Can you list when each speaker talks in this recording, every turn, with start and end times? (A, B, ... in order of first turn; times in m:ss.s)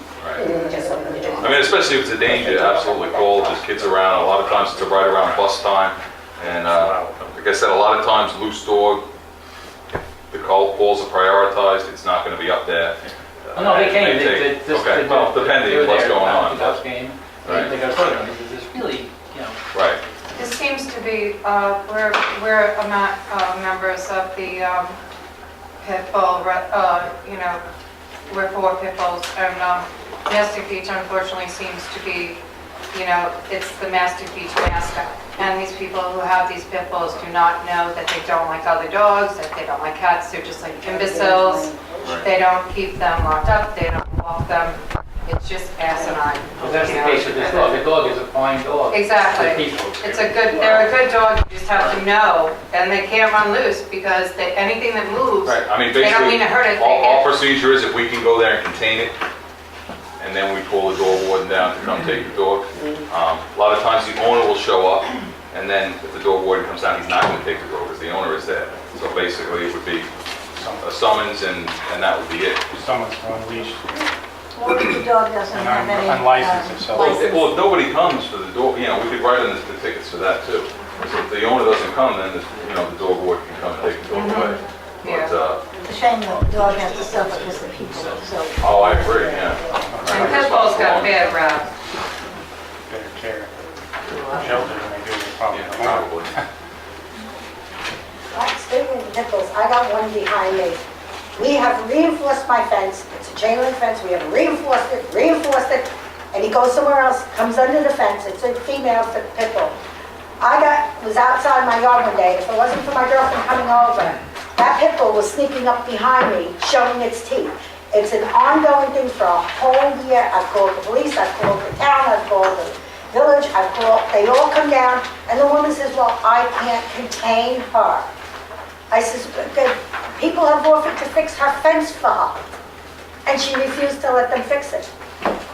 0:00.2-0:00.5 A
0:00.4-0:01.5 B
0:00.8-0:01.6 C
0:01.4-0:09.0 A
0:09.9-0:16.8 A
0:13.5-0:19.6 D
0:17.4-0:17.7 A
0:19.7-0:20.0 A
0:20.3-0:25.0 E
0:25.8-0:27.6 E
0:28.3-0:32.4 E
0:32.9-0:47.8 E
0:41.3-0:41.6 B
0:42.0-0:42.3 A
0:46.6-0:50.0 D
0:48.9-0:57.2 E
0:49.7-0:50.8 F
0:50.5-0:50.9 A
0:51.7-0:52.0 A
0:55.4-0:59.2 A
1:00.2-1:10.1 A
1:10.5-1:10.8 F
1:10.8-1:12.7 A
1:12.7-1:13.8 F
1:14.6-1:17.3 C
1:15.5-1:17.2 F
1:16.9-1:25.6 A
1:24.1-1:25.3 E
1:25.8-1:29.1 C
1:28.6-1:31.2 A
1:29.6-1:31.2 F
1:30.1-1:31.7 E
1:32.9-1:33.5 F
1:34.2-1:36.4 F
1:35.5-1:36.3 A
1:38.3-1:40.8 B
1:41.4-1:49.7 B
1:50.4-2:08.1 B
2:08.9-2:12.4 B
2:13.2-2:14.9 B